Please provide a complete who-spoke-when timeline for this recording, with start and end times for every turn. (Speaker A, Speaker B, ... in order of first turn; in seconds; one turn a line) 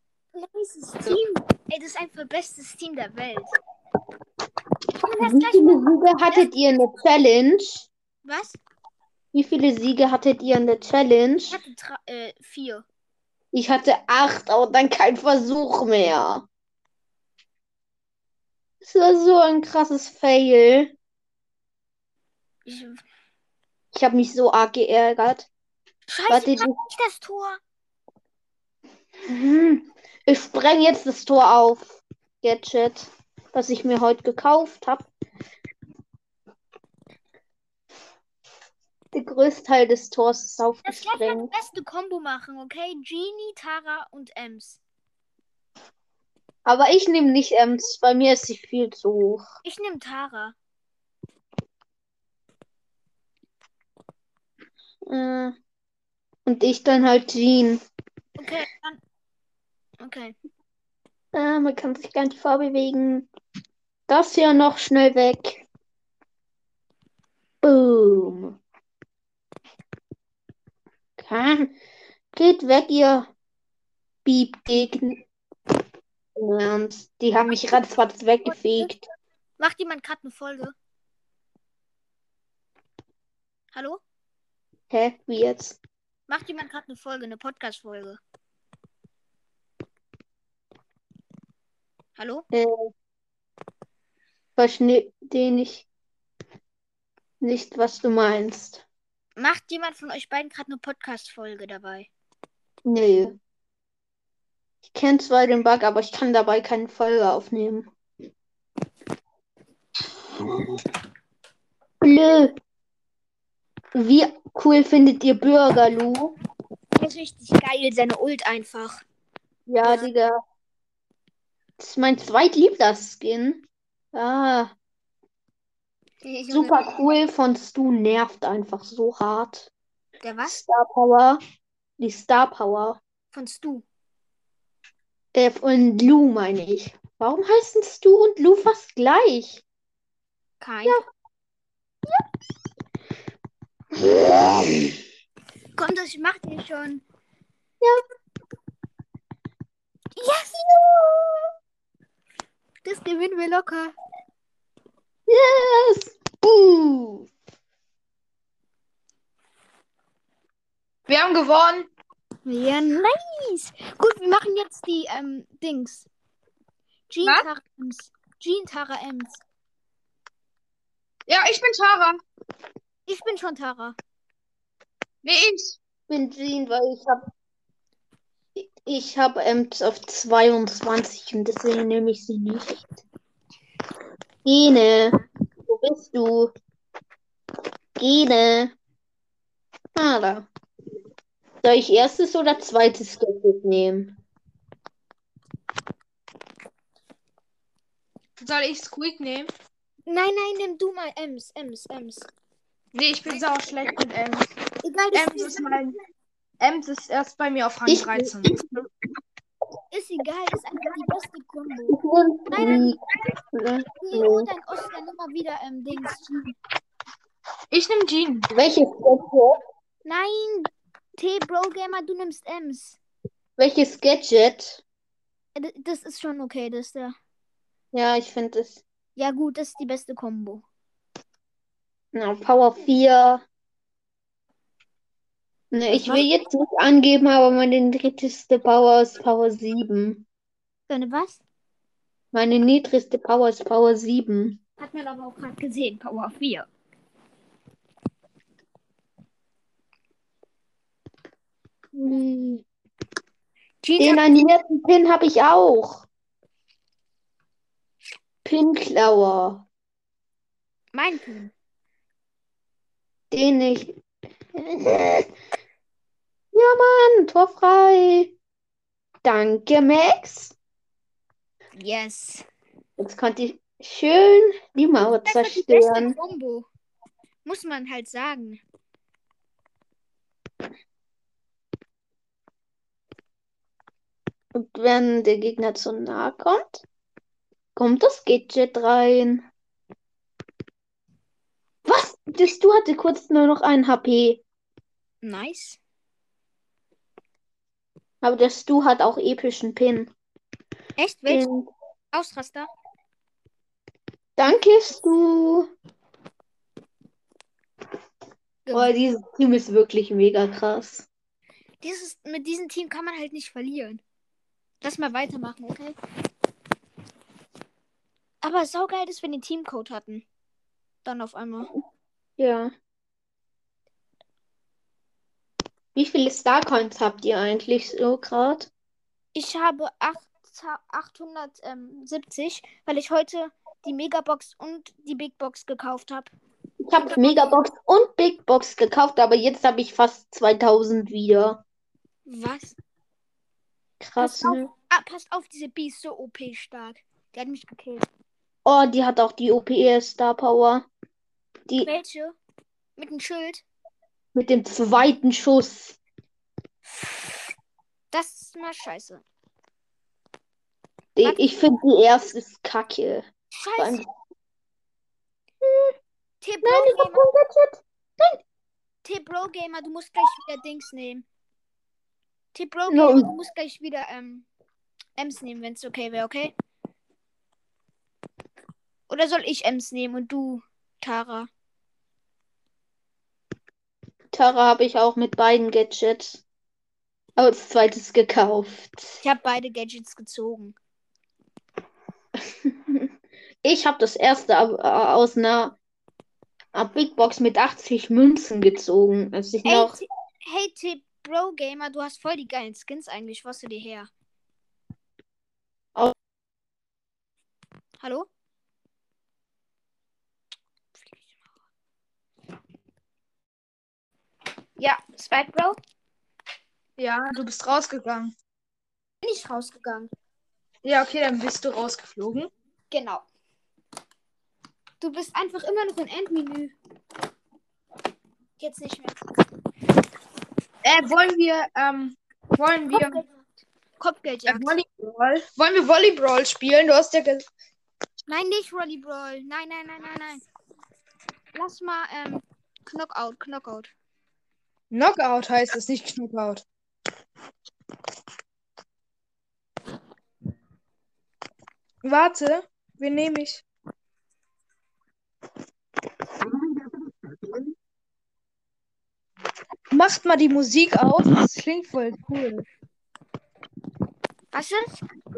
Speaker A: 0.3-3.5
Speaker A: 5.0-6.5
Speaker B: 5.2-7.9
Speaker A: 8.2-8.6
Speaker B: 9.3-11.6
Speaker A: 11.5-12.8
Speaker B: 13.5-16.4
Speaker B: 18.8-20.9
Speaker A: 22.6-23.0
Speaker B: 23.9-25.5
Speaker A: 26.1-27.6
Speaker B: 26.3-26.8
Speaker B: 29.3-35.1
Speaker B: 39.1-41.5
Speaker A: 40.8-44.8
Speaker B: 46.6-49.5
Speaker A: 49.6-50.5
Speaker B: 55.0-55.5
Speaker B: 56.5-57.8
Speaker A: 58.4-59.0
Speaker A: 60.0-60.4
Speaker B: 61.3-63.3
Speaker B: 64.1-65.6
Speaker B: 67.6-68.6
Speaker B: 71.2-71.7
Speaker B: 72.3-73.3
Speaker B: 74.2-75.2
Speaker B: 76.3-79.1
Speaker A: 78.4-78.9
Speaker A: 79.6-80.7
Speaker A: 83.7-84.0
Speaker B: 84.9-85.8
Speaker A: 86.3-88.2
Speaker A: 92.2-92.4
Speaker B: 92.5-92.9
Speaker B: 94.6-95.8
Speaker B: 97.4-98.8
Speaker A: 99.4-102.1
Speaker B: 102.8-103.4
Speaker B: 104.8-107.9
Speaker B: 112.0-112.6
Speaker B: 113.9-116.3
Speaker A: 117.0-119.0
Speaker B: 119.7-120.4
Speaker A: 119.8-120.1
Speaker B: 121.8-124.7
Speaker A: 126.2-126.8
Speaker B: 126.5-129.7
Speaker A: 130.2-130.6
Speaker B: 130.4-131.4
Speaker B: 132.0-133.0
Speaker A: 133.3-133.8
Speaker B: 135.3-139.6
Speaker A: 140.6-141.0
Speaker A: 145.8-147.0
Speaker A: 150.2-150.6
Speaker B: 150.6-151.5
Speaker A: 152.8-153.9
Speaker B: 155.3-157.3
Speaker C: 161.1-161.9
Speaker A: 162.4-166.1
Speaker A: 167.1-169.4
Speaker C: 171.3-172.2
Speaker A: 173.1-174.0
Speaker C: 175.2-175.8
Speaker B: 176.1-177.3
Speaker B: 178.5-183.0
Speaker B: 184.4-186.5
Speaker B: 188.0-188.7
Speaker B: 189.9-190.5
Speaker B: 191.6-194.2
Speaker C: 198.4-199.5
Speaker A: 200.1-202.3
Speaker C: 202.9-204.5
Speaker A: 204.8-205.8
Speaker C: 205.1-205.9
Speaker C: 206.6-208.6
Speaker B: 207.9-208.8
Speaker A: 209.9-212.0
Speaker B: 211.9-213.0
Speaker A: 212.5-212.9
Speaker B: 213.5-214.5
Speaker A: 214.0-216.5
Speaker C: 217.7-218.5
Speaker B: 218.5-219.6
Speaker A: 220.0-223.0
Speaker B: 223.6-224.8
Speaker A: 225.6-227.2
Speaker B: 227.9-228.8
Speaker A: 229.2-230.6
Speaker B: 232.1-233.4
Speaker B: 235.7-240.2
Speaker A: 235.9-236.3
Speaker A: 240.9-241.4
Speaker B: 242.3-244.6
Speaker A: 244.8-246.7
Speaker B: 251.9-252.6
Speaker A: 253.8-254.3
Speaker B: 254.0-256.1
Speaker B: 258.4-259.6
Speaker A: 260.9-261.5
Speaker B: 263.3-264.0
Speaker B: 264.5-265.3
Speaker B: 266.5-268.3
Speaker B: 269.2-270.5
Speaker A: 271.7-272.4
Speaker B: 273.0-276.1
Speaker A: 275.2-276.7
Speaker A: 277.4-278.6
Speaker B: 284.5-286.8
Speaker B: 287.8-289.5
Speaker B: 291.8-294.4
Speaker A: 295.2-295.8
Speaker B: 298.2-300.1
Speaker A: 301.0-301.4
Speaker B: 301.3-301.7
Speaker A: 302.1-302.7
Speaker B: 304.4-305.7
Speaker B: 308.7-311.1
Speaker A: 311.8-314.0
Speaker A: 314.8-315.9
Speaker A: 318.4-320.2
Speaker A: 321.0-321.7
Speaker B: 322.4-322.7
Speaker B: 325.9-328.7
Speaker A: 329.3-336.3
Speaker B: 336.8-341.6
Speaker A: 337.0-337.6
Speaker A: 342.3-342.8
Speaker B: 344.0-344.7
Speaker A: 344.2-348.1
Speaker B: 348.6-350.9
Speaker A: 351.8-352.4
Speaker A: 353.0-353.6
Speaker B: 354.3-356.0
Speaker A: 356.9-357.5
Speaker A: 358.1-359.2
Speaker B: 361.1-364.1
Speaker A: 361.2-361.5
Speaker A: 363.5-364.0
Speaker B: 365.6-365.9
Speaker A: 366.4-367.2
Speaker B: 366.6-368.4
Speaker A: 369.0-371.2
Speaker A: 372.5-374.4
Speaker B: 372.9-373.3
Speaker A: 375.2-376.5
Speaker A: 379.1-381.5
Speaker B: 384.3-386.4
Speaker B: 387.4-389.1
Speaker A: 389.2-390.7
Speaker B: 392.6-393.1
Speaker B: 393.6-395.8
Speaker B: 396.7-400.0
Speaker A: 399.6-404.1
Speaker A: 408.0-408.3
Speaker A: 414.8-415.8
Speaker C: 417.0-418.3
Speaker A: 419.2-420.1
Speaker C: 420.8-422.5
Speaker A: 422.9-423.2
Speaker A: 425.0-426.7
Speaker A: 428.6-429.2
Speaker C: 430.8-433.2
Speaker A: 432.9-433.3
Speaker A: 434.0-434.7
Speaker C: 434.5-437.4
Speaker A: 438.3-440.4
Speaker A: 441.5-443.9
Speaker C: 444.9-446.6
Speaker C: 452.0-453.6
Speaker C: 459.9-462.6
Speaker A: 464.5-465.0